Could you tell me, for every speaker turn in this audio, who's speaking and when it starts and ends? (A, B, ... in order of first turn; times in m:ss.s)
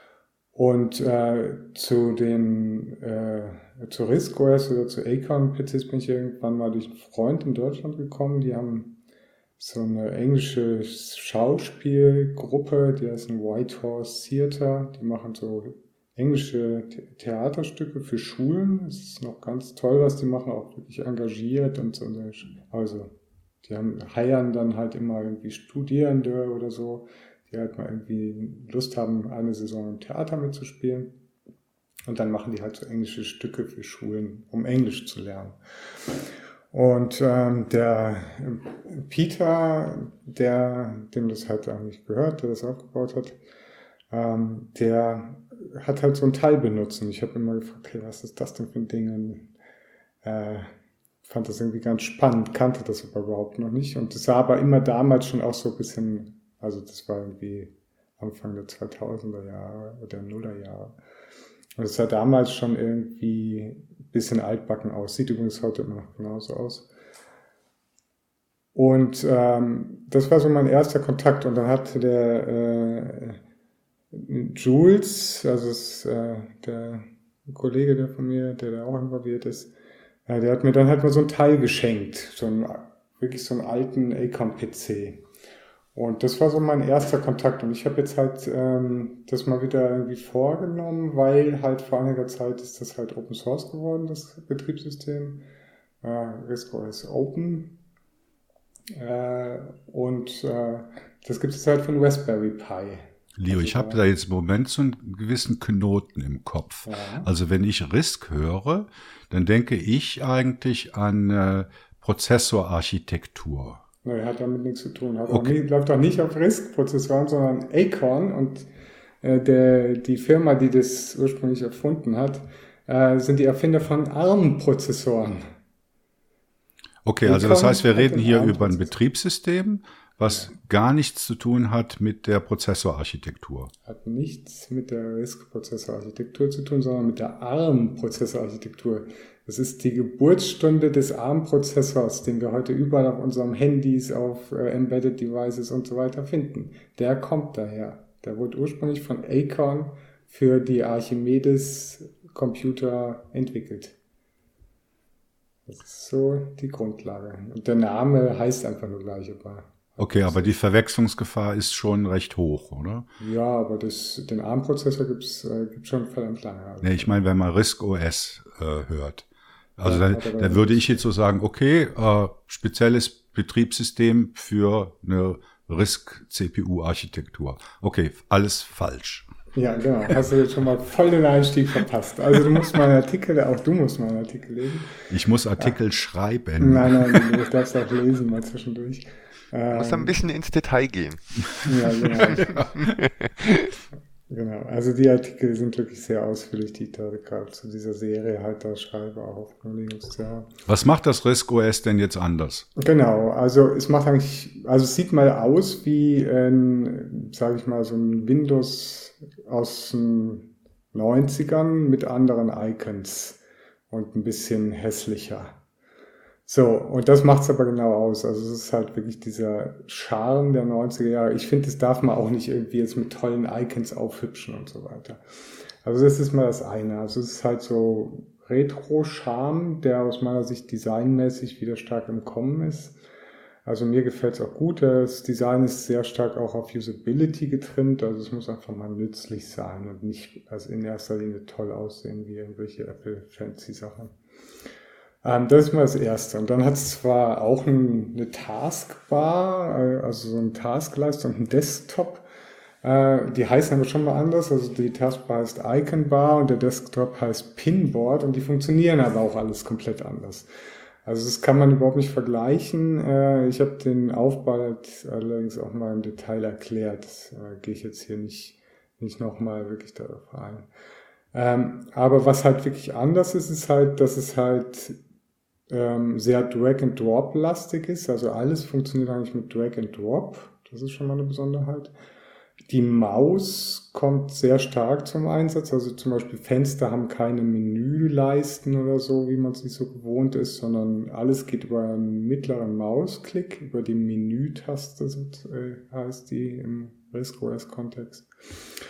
0:00.6-0:09.0 A
0:09.6-0:31.2 A
0:32.1-0:35.6 A
0:36.7-0:43.4 A
0:44.1-0:49.5 A
0:50.2-0:50.7 A
0:51.2-1:01.0 A
1:01.8-1:06.9 A
1:08.8-1:13.4 A
1:14.1-1:19.7 A
1:20.3-1:25.2 A
1:26.0-1:35.5 A
1:36.0-1:37.8 A
1:39.0-1:44.0 A
1:43.4-1:53.8 B
1:46.8-1:47.3 A
1:54.0-1:58.7 A
1:55.3-1:55.5 B
1:59.2-2:05.5 A
2:07.0-2:13.7 B
2:07.2-2:08.9 A
2:10.2-2:10.5 A
2:13.9-2:34.0 A
2:35.7-2:40.6 A
2:40.0-2:43.1 B
2:43.2-2:47.2 A
2:46.8-2:49.3 B
2:49.8-2:59.3 B
2:49.8-2:51.0 A
2:59.5-3:05.7 A
3:05.1-3:07.4 B
3:06.6-3:10.2 A
3:09.7-3:13.7 C
3:11.6-3:12.6 A
3:14.3-3:20.5 A
3:20.7-3:22.7 B
3:22.8-3:35.6 A
3:36.5-3:45.2 A
3:45.8-3:53.0 A
3:53.7-4:04.1 A
4:05.2-4:12.2 A
4:12.8-4:20.5 A
4:21.0-4:30.7 A
4:31.3-4:35.0 A
4:35.7-4:41.9 A
4:42.7-4:58.3 A